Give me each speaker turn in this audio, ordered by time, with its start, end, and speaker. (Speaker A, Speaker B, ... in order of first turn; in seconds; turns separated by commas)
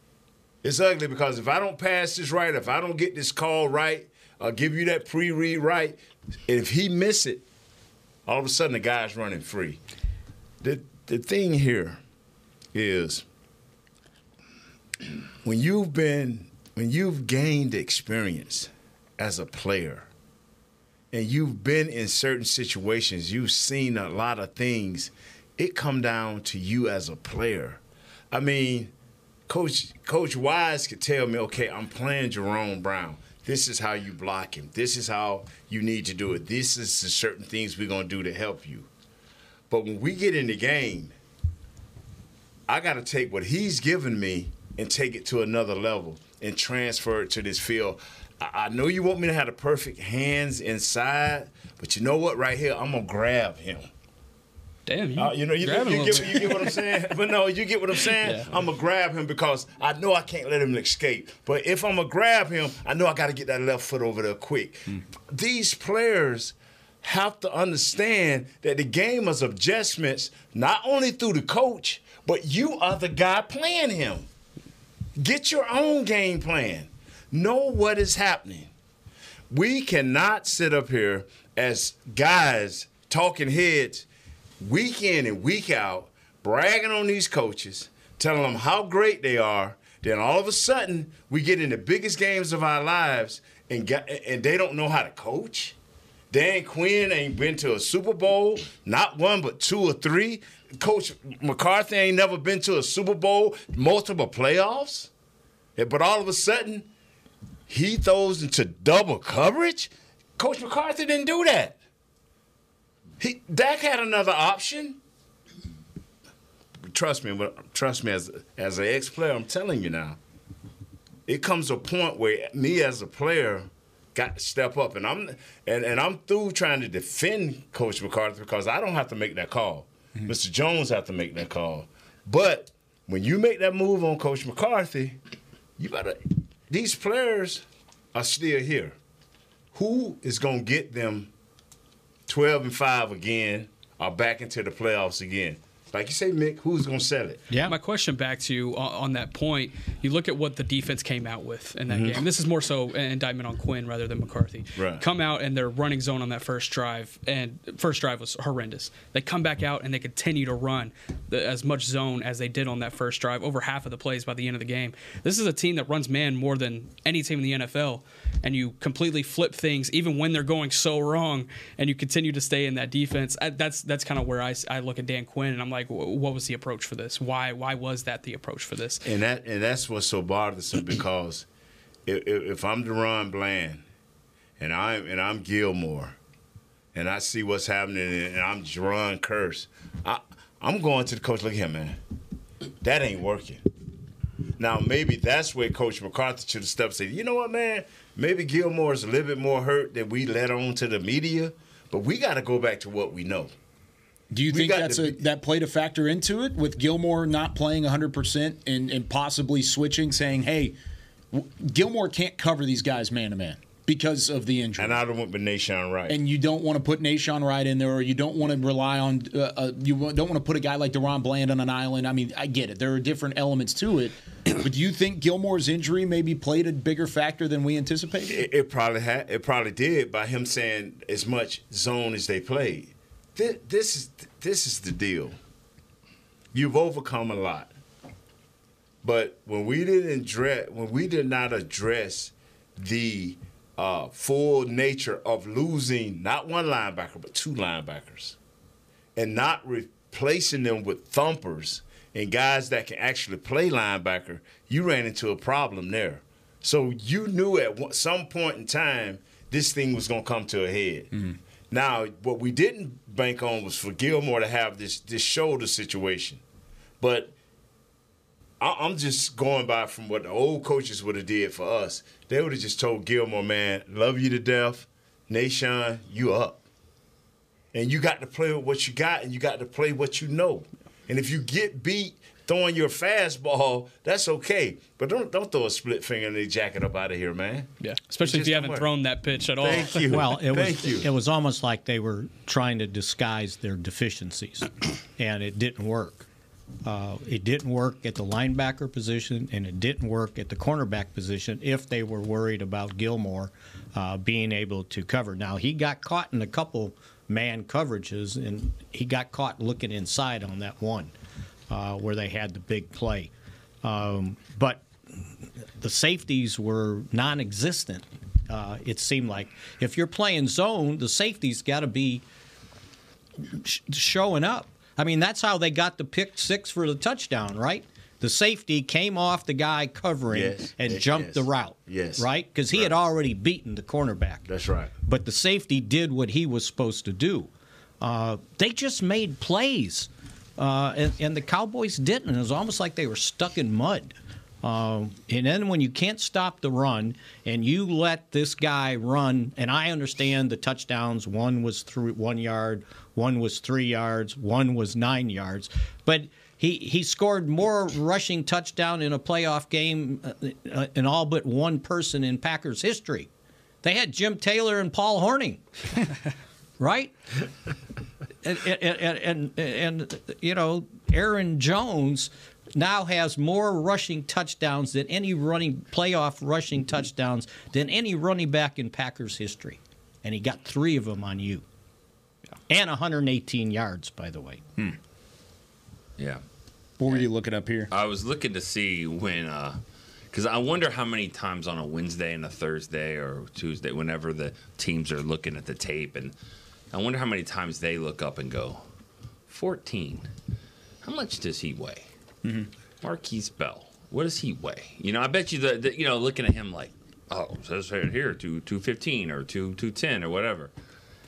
Speaker A: 0.6-7.4, Speaker A: 8.3-9.8, Speaker A: 10.6-12.0, Speaker A: 12.7-13.2, Speaker A: 15.4-20.1, Speaker A: 21.1-27.8, Speaker A: 28.3-28.9, Speaker A: 29.5-38.9, Speaker A: 39.7-41.1, Speaker A: 42.7-53.9, Speaker B: 54.9-56.8, Speaker A: 55.2-74.3, Speaker B: 58.2-58.5, Speaker A: 75.2-78.7, Speaker A: 79.5-84.1, Speaker A: 84.6-95.8, Speaker A: 96.3-105.1, Speaker A: 105.8-106.9, Speaker A: 107.7-111.8, Speaker A: 113.2-115.0, Speaker A: 116.9-120.2, Speaker A: 121.3-135.2, Speaker A: 135.8-139.0, Speaker A: 139.7-141.3, Speaker A: 142.3-147.4, Speaker C: 147.5-147.8, Speaker B: 147.7-179.1, Speaker A: 151.9-152.2, Speaker A: 154.8-155.0, Speaker A: 179.0-181.5, Speaker A: 182.1-183.8, Speaker A: 184.6-186.2, Speaker A: 186.9-192.0, Speaker A: 192.8-193.6, Speaker A: 194.6-203.5, Speaker D: 204.3-210.8, Speaker A: 204.5-205.2, Speaker D: 211.3-215.0, Speaker A: 214.8-216.2, Speaker D: 216.1-228.4, Speaker A: 228.3-235.4, Speaker A: 236.5-237.7, Speaker A: 239.0-248.4, Speaker A: 249.2-261.1, Speaker A: 261.7-266.4, Speaker A: 267.0-267.3, Speaker A: 268.6-276.6, Speaker A: 277.7-287.7, Speaker B: 287.8-290.2, Speaker A: 288.2-288.9, Speaker A: 289.6-291.1, Speaker C: 290.1-296.3, Speaker C: 296.8-311.1, Speaker C: 311.7-313.3, Speaker C: 313.8-315.2, Speaker C: 315.8-322.2, Speaker C: 323.4-334.4, Speaker A: 330.3-332.9, Speaker A: 334.5-334.9, Speaker C: 335.1-337.5, Speaker C: 338.0-363.3, Speaker C: 363.8-365.6, Speaker C: 366.8-367.2, Speaker C: 368.4-381.6, Speaker C: 382.7-384.6, Speaker D: 387.0-387.9, Speaker E: 387.9-389.8, Speaker E: 390.3-396.3, Speaker E: 396.9-398.8, Speaker E: 399.5-400.3, Speaker E: 401.0-402.1, Speaker E: 403.0-410.7